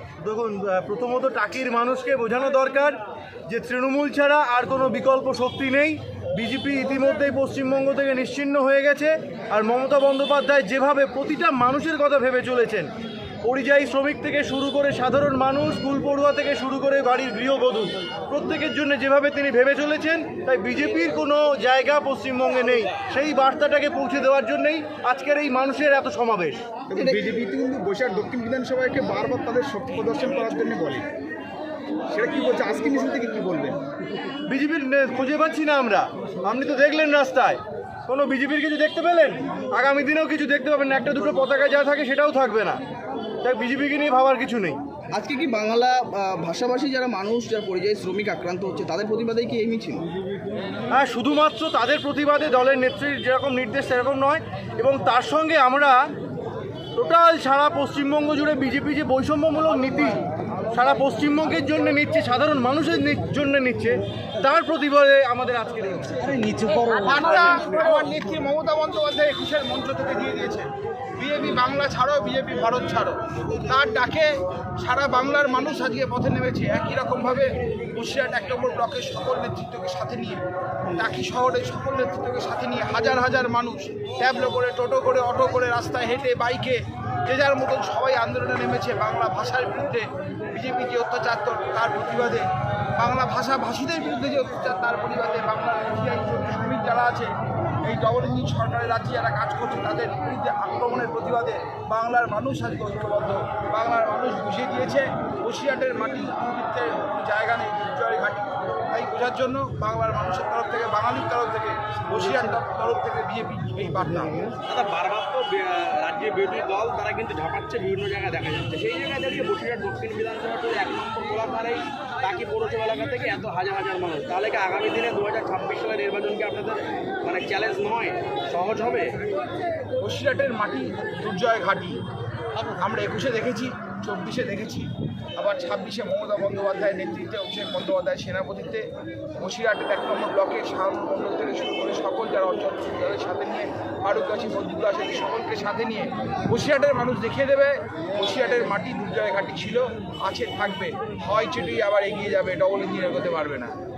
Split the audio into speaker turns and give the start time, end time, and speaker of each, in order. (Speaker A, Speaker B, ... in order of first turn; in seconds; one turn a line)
Speaker A: 0.2-12.9
Speaker A: 13.4-26.6
Speaker B: 26.9-27.3
Speaker C: 27.0-31.0
Speaker C: 32.1-33.7
Speaker A: 34.5-42.8
Speaker A: 43.4-44.8
Speaker B: 45.1-50.0
Speaker A: 50.9-56.1
Speaker A: 57.0-67.1
Speaker D: 66.9-92.5
Speaker D: 93.0-97.3
Speaker D: 97.8-114.5
Speaker E: 114.7-129.2
Speaker D: 130.0-132.0
Speaker D: 132.7-138.8
Speaker D: 139.4-153.7